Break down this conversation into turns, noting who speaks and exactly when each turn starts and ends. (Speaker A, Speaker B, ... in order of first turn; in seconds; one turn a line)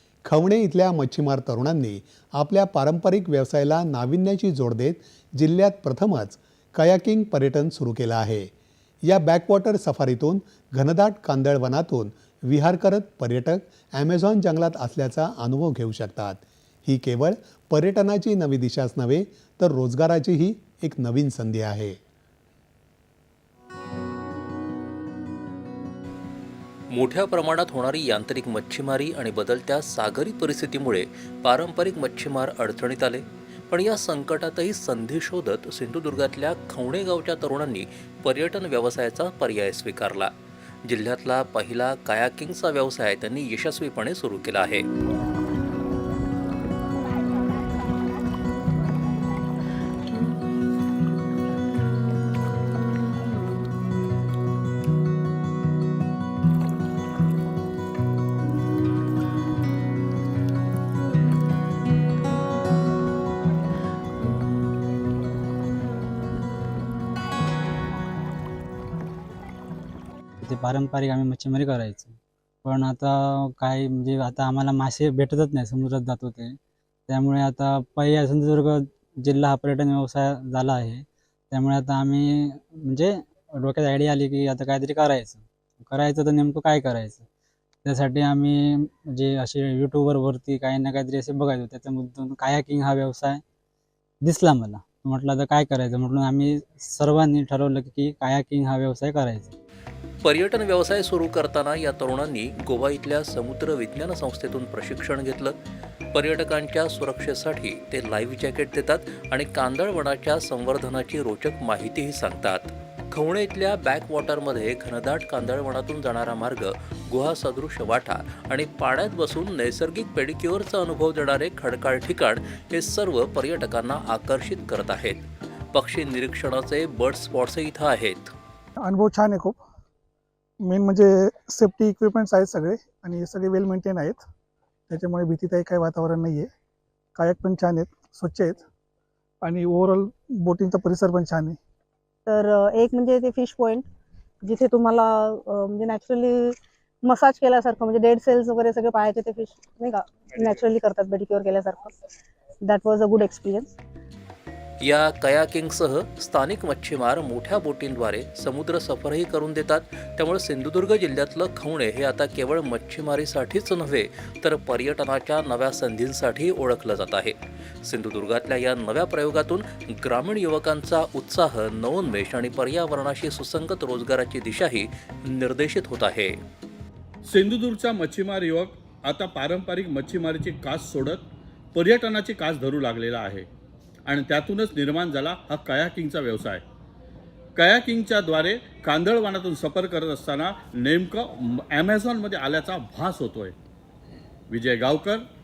Speaker A: 0.2-8.5
Speaker A: 9.0-22.0
Speaker B: 26.9-40.3
Speaker B: 40.9-44.9
Speaker C: 70.4-87.3
Speaker C: 87.8-93.4
Speaker C: 94.2-99.6
Speaker B: 100.2-105.6
Speaker B: 106.1-128.3
Speaker D: 128.8-129.6
Speaker D: 130.6-134.2
Speaker D: 134.9-136.5
Speaker D: 137.2-138.6
Speaker D: 139.4-141.6
Speaker E: 142.3-143.9
Speaker E: 144.4-152.0
Speaker E: 152.6-153.8
Speaker B: 154.8-176.4
Speaker F: 177.2-183.5
Speaker F: 184.1-186.6
Speaker F: 187.6-193.6
Speaker F: 194.5-195.2